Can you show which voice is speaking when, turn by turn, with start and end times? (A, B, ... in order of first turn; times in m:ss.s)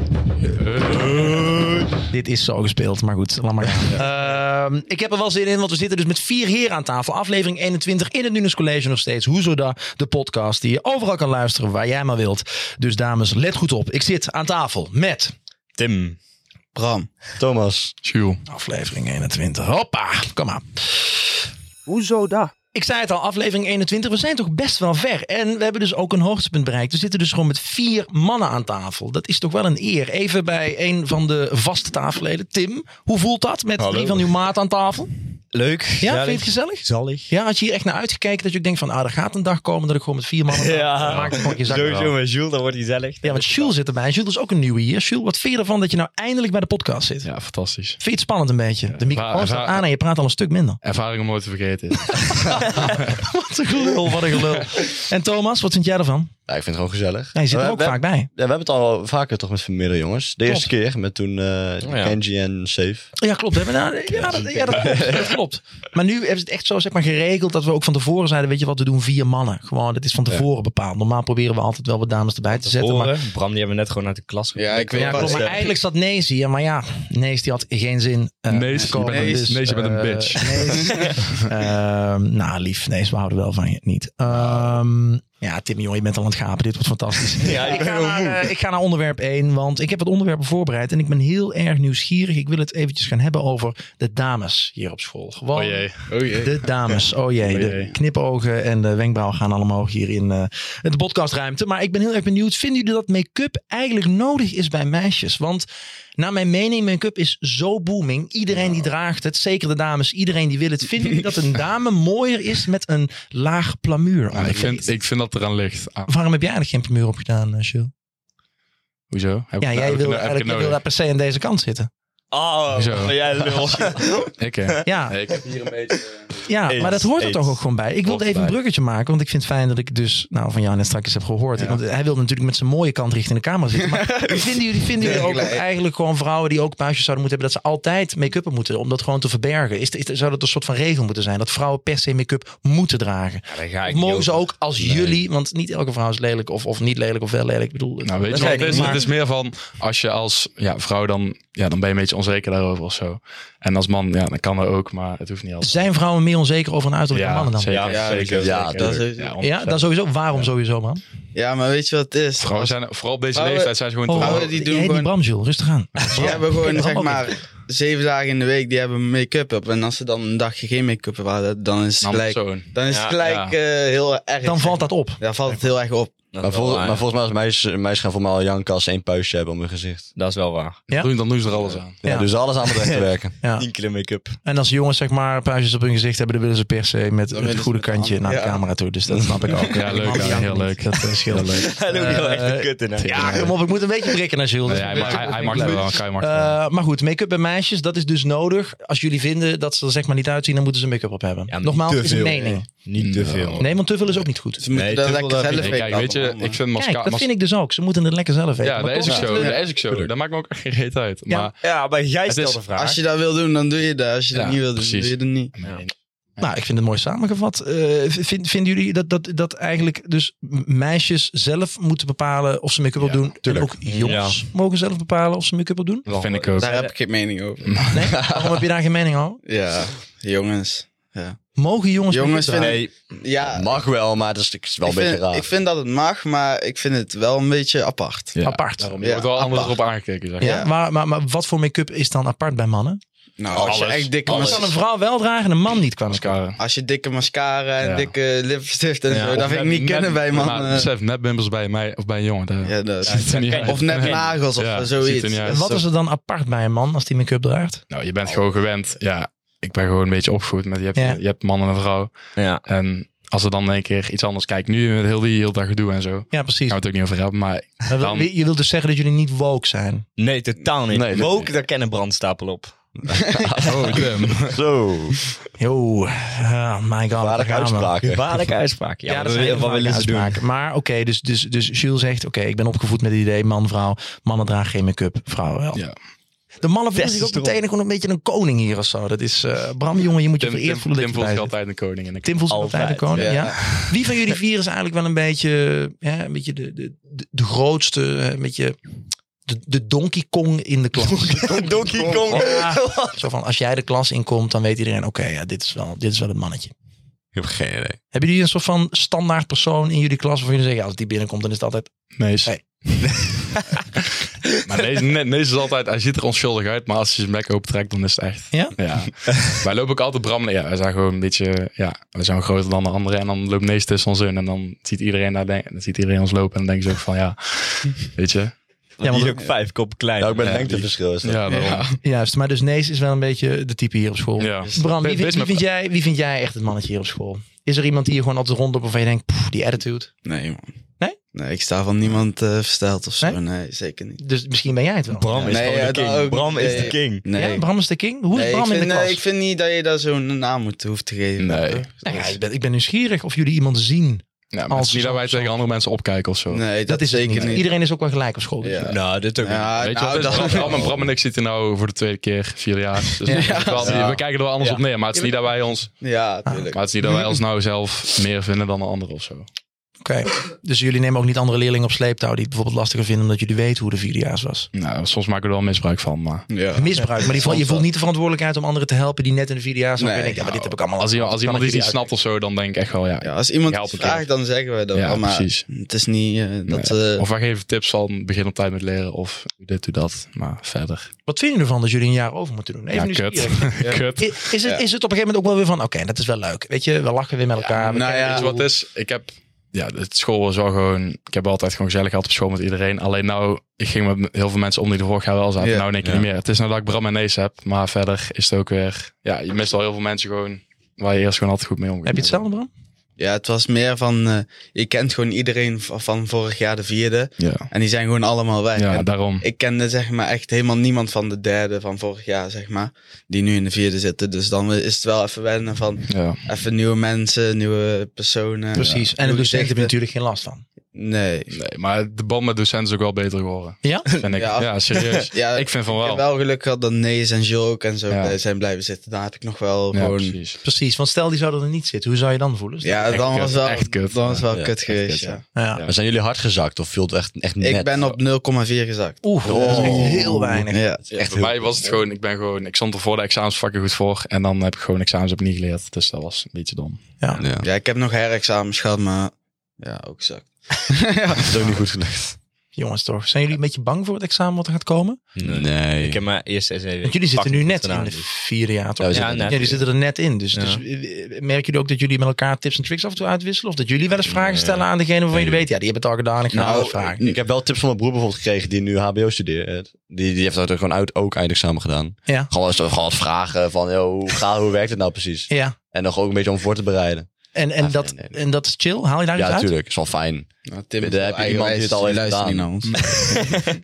0:00.4-0:01.7 A
0:02.0-0:15.3 B
0:15.8-0:16.2 C
0:16.7-0:17.1 D
0:17.4-0:17.9 E
0:18.0-0:18.4 A
0:18.5-0:21.3 B
0:22.0-0:35.1 B
0:33.8-0:34.1 C
0:35.5-0:37.3 C
0:36.0-0:42.1 B
0:40.5-0:43.7 C
0:41.0-0:42.1 A
0:43.2-0:47.3 B
0:47.2-0:48.0 A
0:48.0-0:50.8 B
0:48.9-0:49.8 A
0:50.8-0:53.2 A
0:52.5-0:56.3 B
0:56.5-1:03.1 E
0:57.3-0:58.3 B
1:01.8-1:02.2 C
1:03.2-1:13.2 B
1:04.2-1:05.2 E
1:04.3-1:05.2 C
1:12.6-1:15.5 C
1:14.6-1:15.7 D
1:14.9-1:45.7 B
1:18.5-1:21.4 A
1:18.8-1:19.5 D
1:20.8-1:21.2 D
1:27.4-1:28.5 C
1:35.5-1:36.6 A
1:36.1-1:36.5 D
1:37.4-1:37.9 A
1:46.2-1:54.9 B
1:54.3-1:56.1 A
1:56.1-1:57.9 B
1:59.1-2:00.8 A
1:59.6-2:01.9 B
2:02.3-2:04.3 C
2:02.7-2:03.5 A
2:04.4-2:06.4 A
2:04.8-2:05.2 B
2:06.4-2:29.1 B
2:06.7-2:07.4 C
2:06.8-2:07.1 E
2:08.0-2:08.5 A
2:11.5-2:11.8 A
2:13.8-2:15.6 D
2:23.5-2:25.1 C
2:28.0-2:35.9 A
2:28.3-2:29.0 C
2:35.6-2:37.8 B
2:37.1-2:40.5 A
2:37.7-2:38.4 C
2:37.9-2:39.4 D
2:38.4-2:39.0 E
2:39.4-2:41.0 B
2:41.3-2:42.8 D
2:42.4-2:44.5 A
2:43.3-2:45.1 D
2:44.1-2:47.3 B
2:46.0-2:46.4 A
2:46.1-2:56.1 D
2:52.0-2:53.5 A
2:52.9-2:53.2 C
2:54.4-2:55.6 B
2:56.3-2:57.0 C
2:56.4-3:00.1 E
3:00.1-3:00.8 C
3:00.9-3:01.1 B
3:00.9-3:02.0 A
3:02.0-3:03.3 E
3:02.0-3:02.3 B
3:02.6-3:04.4 C
3:03.4-3:03.7 B
3:04.4-3:22.7 B
3:07.3-3:08.6 D
3:09.5-3:10.4 D
3:09.7-3:12.2 A
3:11.5-3:13.5 C
3:13.0-3:13.6 A
3:14.6-3:16.6 A
3:14.7-3:15.8 D
3:21.5-3:23.7 C
3:23.0-3:23.8 A
3:23.6-3:24.6 B
3:24.6-3:26.6 D
3:24.7-3:25.8 C
3:25.5-3:27.3 A
3:26.8-3:29.6 B
3:28.6-3:31.6 A
3:29.3-3:29.6 D
3:31.6-3:33.0 C
3:32.2-3:32.6 A
3:32.7-3:35.5 D
3:34.3-3:36.5 A
3:36.4-3:46.0 B
3:43.4-3:43.7 E
3:43.8-3:44.4 C
3:46.0-3:46.9 C
3:46.1-3:46.8 A
3:46.6-3:47.8 D
3:47.6-3:48.1 A
3:47.9-3:49.4 B
3:48.2-3:48.5 E
3:49.4-3:51.4 D
3:51.6-3:52.8 B
3:52.1-3:53.8 D
3:52.6-3:52.9 C
3:53.4-3:55.5 E
3:54.8-3:58.4 D
3:58.3-4:00.7 A
3:58.4-3:58.9 B
3:59.0-3:59.8 D
4:00.4-4:03.0 B
4:00.4-4:00.7 D
4:03.4-4:04.7 D
4:03.6-4:04.7 A
4:04.2-4:06.4 B
4:06.1-4:06.6 A
4:06.6-4:10.9 D
4:07.8-4:08.1 A
4:09.1-4:09.4 C
4:09.3-4:15.6 A
4:12.6-4:15.8 D
4:13.0-4:14.3 C
4:15.4-4:17.8 B
4:17.9-4:28.3 A
4:20.9-4:21.2 B
4:22.4-4:22.6 C
4:26.3-4:26.8 B
4:27.9-4:30.0 B
4:30.2-4:33.0 C
4:30.9-4:31.5 E
4:33.2-4:35.3 E
4:33.4-4:33.8 D
4:33.6-4:34.6 A
4:35.6-4:37.9 B
4:37.2-4:38.3 E
4:38.0-4:40.4 C
4:39.0-4:45.8 B
4:46.6-4:51.5 B
4:47.0-4:47.6 C
4:50.4-4:52.6 A
4:52.2-4:58.8 B
4:52.5-4:53.4 C
4:53.2-4:53.6 D
4:59.4-5:01.7 B
5:01.1-5:03.2 C
5:01.4-5:02.5 E
5:02.3-5:06.7 B
5:07.3-5:08.0 E
5:08.1-5:11.9 B
5:12.2-5:13.2 A
5:14.6-5:28.5 A
5:18.5-5:18.8 B
5:29.0-5:30.9 C
5:29.0-5:29.4 B
5:30.2-5:31.5 E
5:31.2-5:31.9 A
5:31.5-5:32.0 D
5:32.0-5:40.1 B
5:34.4-5:35.6 A
5:40.2-5:40.7 D
5:41.3-5:44.2 D
5:44.2-5:45.6 B
5:45.1-5:47.2 C
5:45.4-5:47.6 D
5:47.3-5:49.2 B
5:48.3-5:52.4 D
5:51.4-5:51.9 A
5:52.0-5:55.6 B
5:54.5-5:56.6 A
5:56.5-5:57.7 D
5:56.8-5:58.9 B
5:58.6-6:01.0 D
5:58.8-6:00.8 C
5:59.8-6:06.0 A
6:03.2-6:03.7 B
6:03.3-6:04.2 D
6:06.0-6:07.4 D
6:06.7-6:09.5 A
6:10.0-6:14.7 B
6:14.7-6:16.5 A
6:16.5-6:17.8 D
6:16.8-6:22.0 B
6:20.0-6:20.4 D
6:20.4-6:24.3 A
6:23.2-6:27.2 D
6:24.9-6:25.7 A
6:26.7-6:31.1 A
6:31.2-6:38.6 B
6:32.9-6:34.4 A
6:37.8-6:52.4 A
6:37.8-6:38.6 D
6:45.6-6:45.9 D
6:52.0-6:52.7 B
6:53.2-7:09.9 D
6:57.4-6:57.7 A
6:58.8-6:59.4 A
7:06.1-7:06.4 A
7:08.7-7:10.6 B
7:10.9-7:11.5 D
7:11.5-7:16.2 A
7:13.8-7:14.1 B
7:14.3-7:20.4 D
7:18.1-7:18.4 A
7:19.9-7:20.6 A
7:20.6-7:23.2 B
7:22.8-7:25.4 D
7:23.1-7:25.9 A
7:25.5-7:25.8 B
7:25.8-7:28.0 E
7:27.6-7:31.3 D
7:29.2-7:30.8 B
7:29.4-7:30.4 E
7:31.1-7:31.7 E
7:31.1-7:37.1 A
7:37.4-7:37.7 E
7:37.6-7:41.8 D
7:41.4-7:42.4 E
7:42.7-7:45.2 B
7:45.4-7:48.3 C
7:45.4-7:46.2 E
7:47.0-7:57.2 B
7:49.0-7:49.8 E
7:49.1-7:49.8 C
7:50.5-7:50.8 C
7:54.3-7:54.8 C
7:55.3-7:55.6 E
7:56.5-7:57.4 D
7:56.5-8:08.4 E
8:05.5-8:05.7 B
8:07.5-8:09.7 B
8:09.4-8:12.7 E
8:10.7-8:13.7 D
8:12.9-8:13.4 A